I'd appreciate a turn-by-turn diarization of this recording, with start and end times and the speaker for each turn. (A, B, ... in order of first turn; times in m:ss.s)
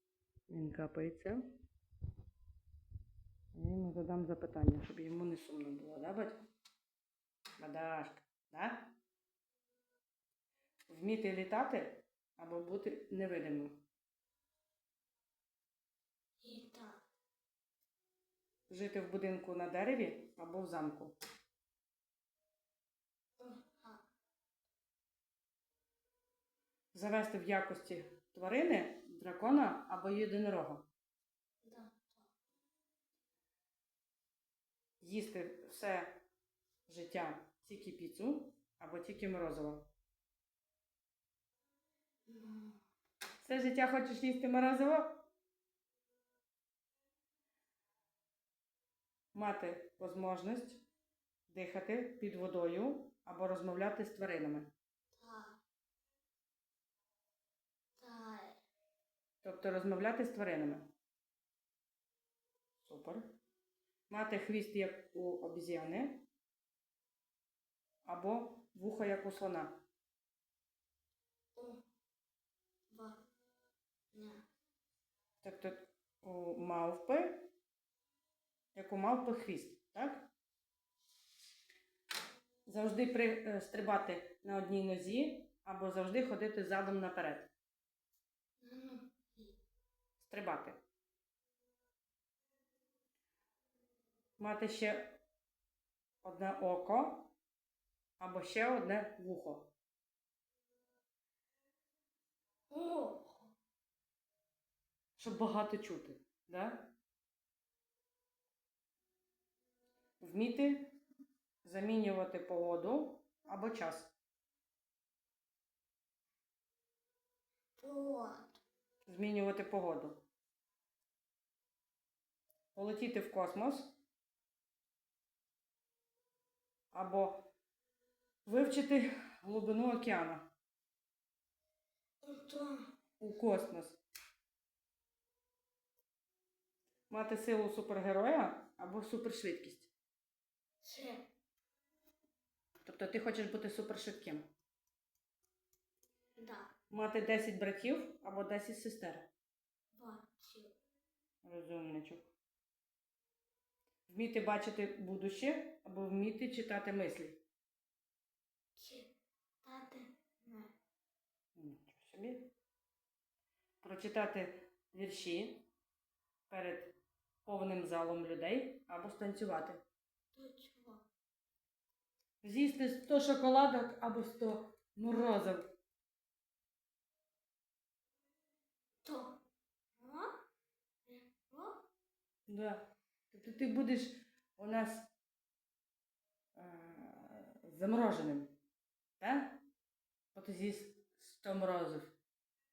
0:00.5-0:01.4 A
0:03.5-0:06.4 A
0:07.6-0:08.9 A
0:10.9-0:13.8 A
0:16.4-0:17.0 B
0:18.7-0:21.2 A
0:23.4-0:24.0 B
0:26.9-0:30.8 A
0:31.6-0:32.3 B
0:35.0-0:36.2 A
0:36.9-0:39.9 A
0:42.3-0:42.8 B
0:43.4-0:45.2 A
0:49.3-0:50.8 A
0:51.5-0:54.7 A
0:55.2-0:55.6 B
0:58.0-0:58.6 B
0:59.4-1:00.9 A
1:02.8-1:03.4 A
1:04.1-1:06.2 A
1:08.0-1:09.8 A
1:11.6-1:11.8 B
1:12.9-1:13.2 B
1:14.1-1:14.4 B
1:15.4-1:17.5 A
1:18.7-1:20.3 A
1:22.6-1:27.5 A
1:28.6-1:29.6 B
1:30.2-1:30.8 A
1:34.4-1:35.2 A
1:36.2-1:37.3 A
1:38.2-1:39.7 A
1:42.7-1:43.5 B
1:45.2-1:46.9 A
1:50.2-1:50.9 A
1:51.6-1:54.1 A
1:57.8-1:58.6 B
1:59.0-2:00.2 A
2:02.7-2:03.9 A
2:06.9-2:07.5 A
2:08.4-2:10.5 A
2:12.2-2:12.8 B
2:13.2-2:14.0 A
2:17.1-2:19.9 A
2:20.8-2:21.2 B
2:22.8-2:24.5 A
2:26.4-2:26.7 B
2:26.9-2:29.3 A
2:29.9-2:30.7 B
2:31.4-2:32.3 A
2:34.1-2:37.4 A
2:38.8-2:39.1 B
2:39.6-2:40.7 B
2:41.5-2:42.5 A
2:43.8-2:45.7 A
2:46.5-2:49.8 A
2:50.3-2:51.0 B
2:52.4-2:55.7 A
2:59.0-2:59.4 B
3:00.0-3:00.4 B
3:01.0-3:01.8 B
3:02.5-3:05.1 A
3:06.5-3:08.5 A
3:09.2-3:09.6 A
3:10.3-3:12.1 A